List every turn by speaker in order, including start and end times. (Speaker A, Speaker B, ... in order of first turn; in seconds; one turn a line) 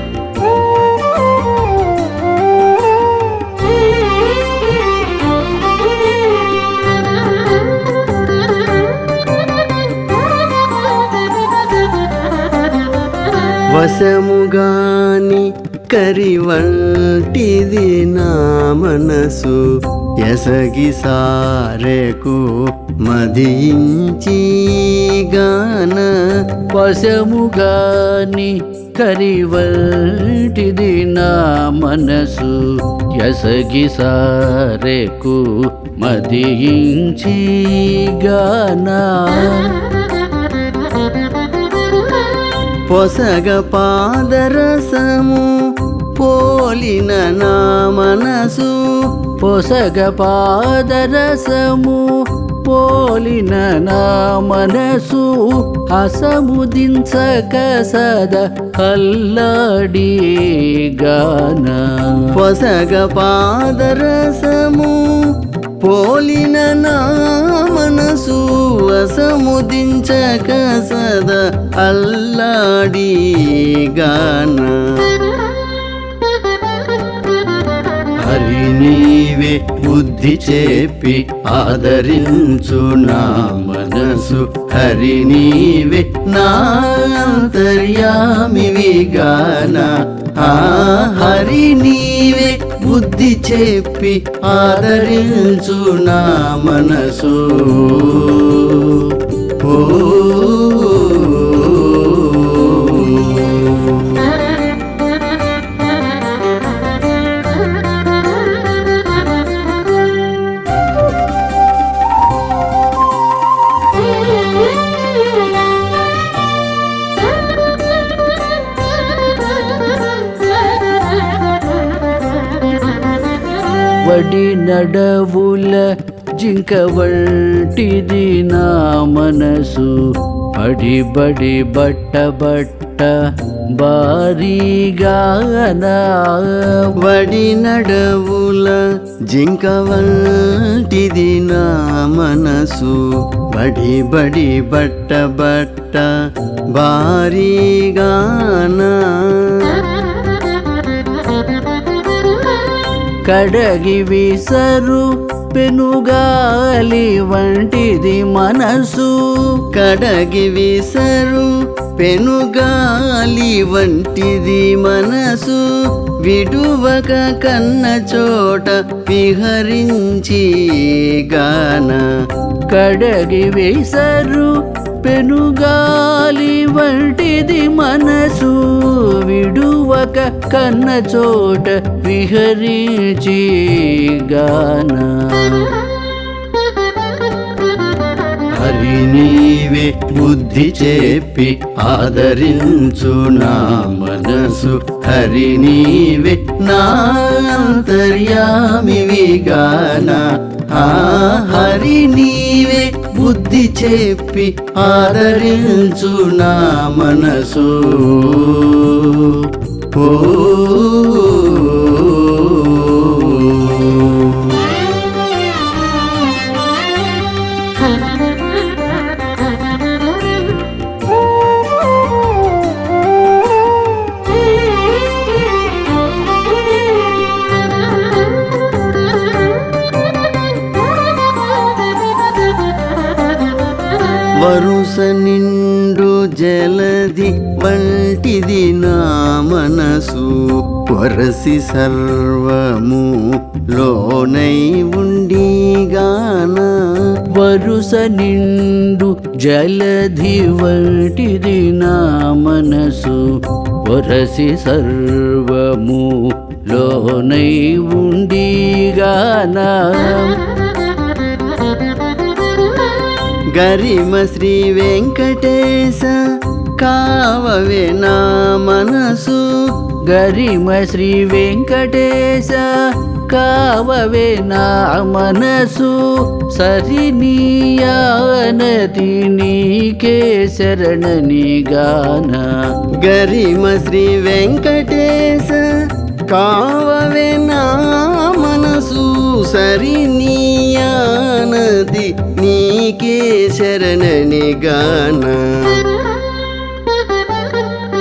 Speaker A: 13.7-19.6
Speaker A: 20.2-26.1
Speaker B: 26.7-39.8
Speaker A: 42.9-45.6
Speaker A: 46.1-48.9
Speaker B: 49.4-62.3
Speaker A: 62.3-65.0
Speaker A: 65.8-75.2
Speaker A: 78.2-104.4
Speaker B: 124.0-133.2
Speaker B: 133.7-136.9
Speaker A: 137.0-146.1
Speaker A: 146.7-149.9
Speaker B: 153.2-159.2
Speaker A: 159.7-165.7
Speaker A: 166.2-172.1
Speaker B: 172.7-174.5
Speaker B: 175.0-185.7
Speaker A: 188.5-214.6
Speaker A: 234.4-247.0
Speaker B: 247.4-260.4
Speaker A: 263.5-266.2
Speaker A: 266.8-269.5
Speaker B: 270.1-272.7
Speaker B: 273.3-282.6
Speaker A: 283.0-285.7
Speaker A: 286.3-295.9